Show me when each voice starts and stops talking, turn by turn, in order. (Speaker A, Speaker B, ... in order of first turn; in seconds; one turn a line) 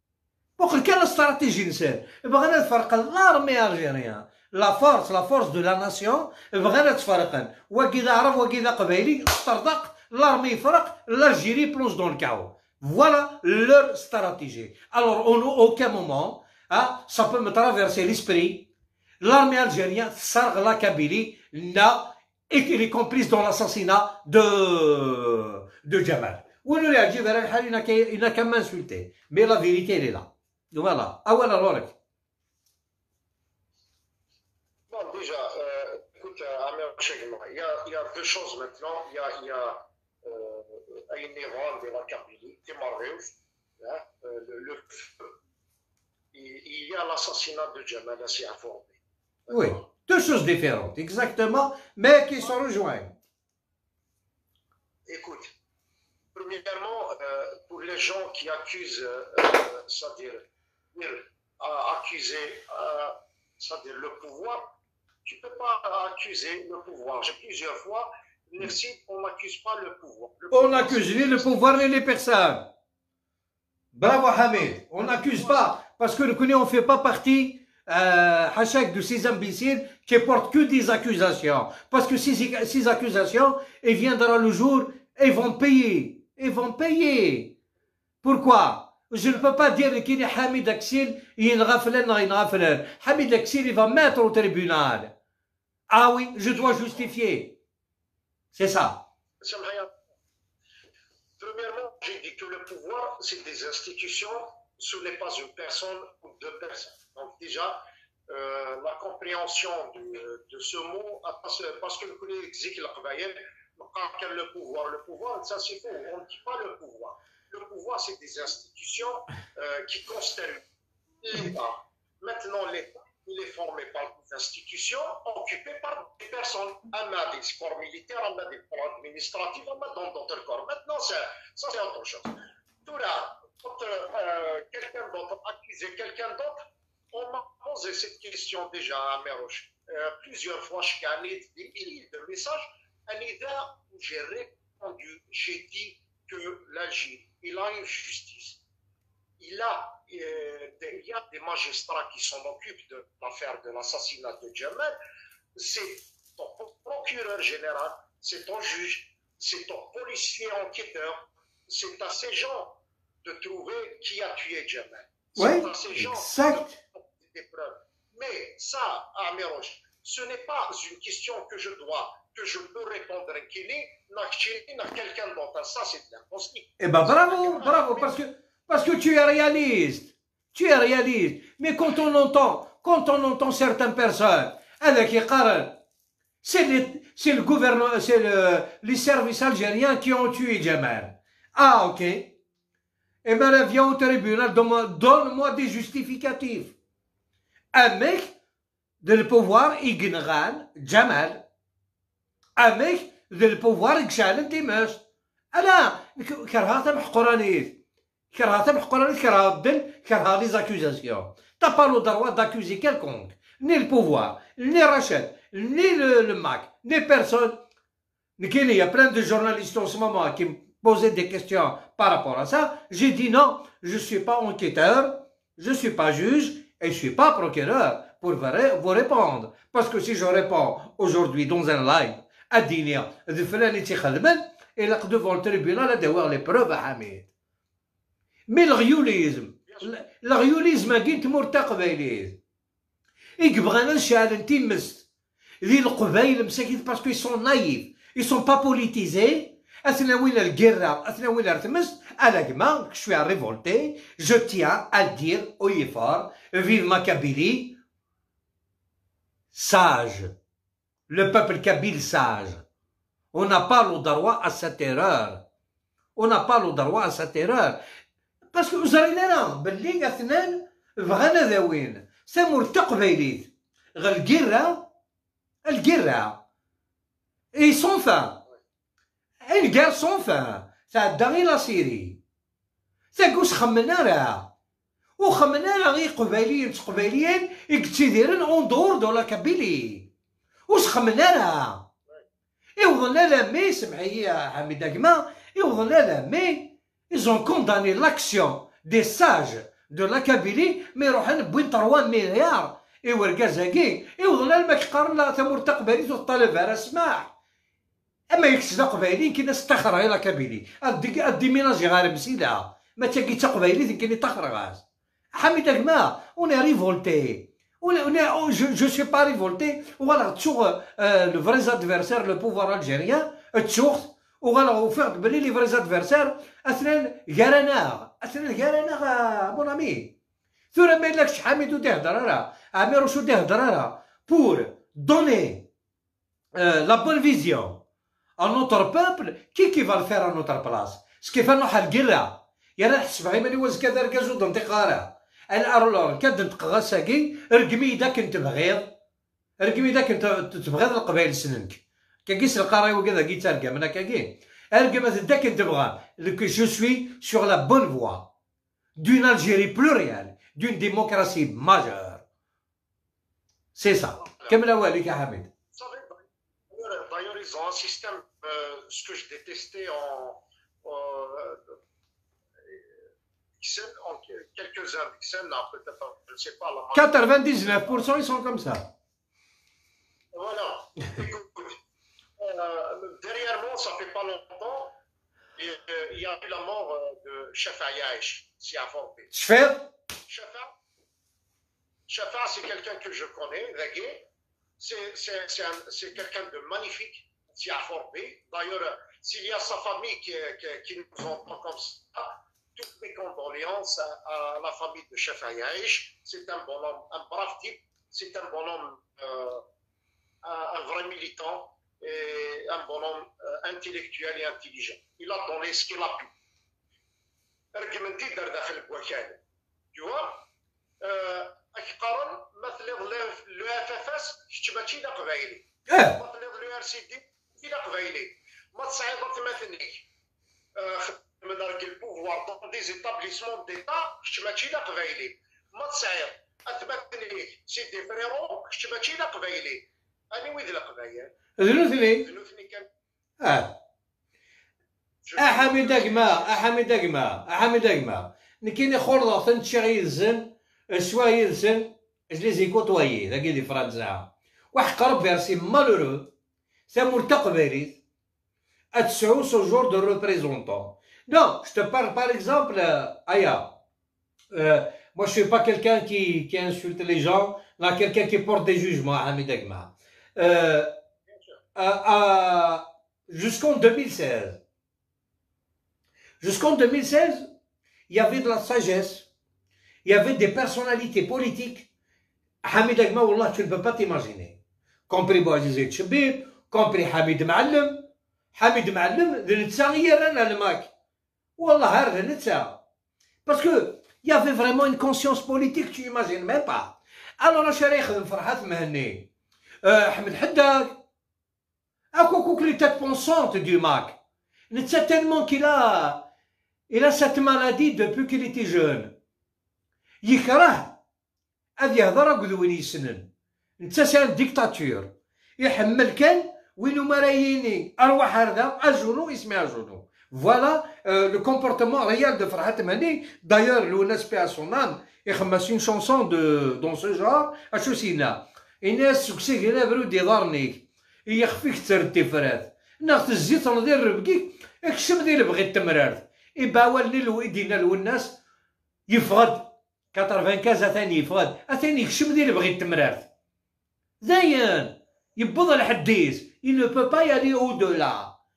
Speaker A: 0.6-18.7
Speaker A: 19.2-31.9
Speaker B: 34.9-45.3
Speaker B: 46.3-49.8
Speaker A: 49.5-53.1
Speaker B: 55.1-55.5
Speaker B: 56.3-64.7
Speaker B: 65.2-71.9
Speaker A: 70.5-72.7
Speaker A: 73.9-87.5
Speaker A: 88.2-95.1
Speaker A: 95.9-97.6
Speaker B: 96.5-97.1
Speaker A: 98.5-99.0
Speaker B: 99.4-99.9
Speaker B: 101.4-120.6
Speaker B: 121.2-148.6
Speaker B: 149.4-154.9
Speaker B: 155.6-178.2
Speaker A: 165.4-166.7
Speaker A: 176.8-185.8
Speaker A: 186.4-192.4
Speaker A: 193.2-196.8
Speaker A: 197.7-198.3
Speaker A: 199.0-201.4
Speaker A: 202.6-205.0
Speaker A: 205.5-207.8
Speaker A: 208.3-217.6
Speaker A: 218.4-237.3
Speaker A: 238.5-242.4
Speaker B: 239.7-240.0
Speaker A: 243.4-245.1
Speaker A: 245.6-257.8
Speaker A: 259.5-260.4
Speaker A: 261.1-262.6
Speaker A: 263.3-265.4
Speaker A: 266.1-267.8
Speaker A: 268.5-274.9
Speaker A: 275.6-276.4
Speaker A: 277.5-278.4
Speaker A: 279.4-282.2
Speaker A: 283.1-284.5
Speaker A: 285.2-290.1
Speaker A: 290.7-291.9
Speaker A: 292.8-307.3
Speaker A: 308.3-314.8
Speaker A: 315.3-330.1
Speaker A: 330.7-335.7
Speaker A: 336.5-337.8
Speaker A: 338.4-348.9
Speaker A: 349.6-358.3
Speaker A: 359.0-362.2
Speaker A: 363.8-365.5
Speaker B: 364.2-364.6
Speaker B: 365.7-371.8
Speaker B: 373.6-378.1
Speaker A: 376.9-378.9
Speaker B: 380.3-381.8
Speaker B: 382.4-385.0
Speaker B: 385.6-389.3
Speaker A: 389.3-389.9
Speaker B: 390.3-390.7
Speaker B: 392.1-394.3
Speaker B: 394.8-409.6
Speaker B: 410.4-416.3
Speaker B: 417.7-419.4
Speaker B: 419.9-420.5
Speaker B: 421.0-430.1
Speaker A: 425.9-426.2
Speaker B: 430.8-441.4
Speaker A: 441.6-442.3
Speaker B: 442.1-442.9
Speaker A: 443.4-443.8
Speaker B: 445.2-446.7
Speaker A: 445.4-456.3
Speaker A: 456.9-458.0
Speaker A: 458.9-463.7
Speaker A: 464.5-470.9
Speaker B: 471.3-471.6
Speaker A: 471.8-474.6
Speaker A: 476.4-477.5
Speaker A: 478.1-479.3
Speaker A: 480.1-481.9
Speaker A: 482.6-484.6
Speaker A: 485.1-490.9
Speaker A: 491.6-492.8
Speaker A: 493.4-499.3
Speaker A: 499.8-501.0
Speaker A: 502.1-504.2
Speaker A: 504.7-506.2
Speaker A: 506.9-509.1
Speaker A: 510.2-511.0
Speaker A: 511.8-513.3
Speaker A: 513.8-538.4
Speaker A: 539.1-543.3
Speaker A: 544.2-548.3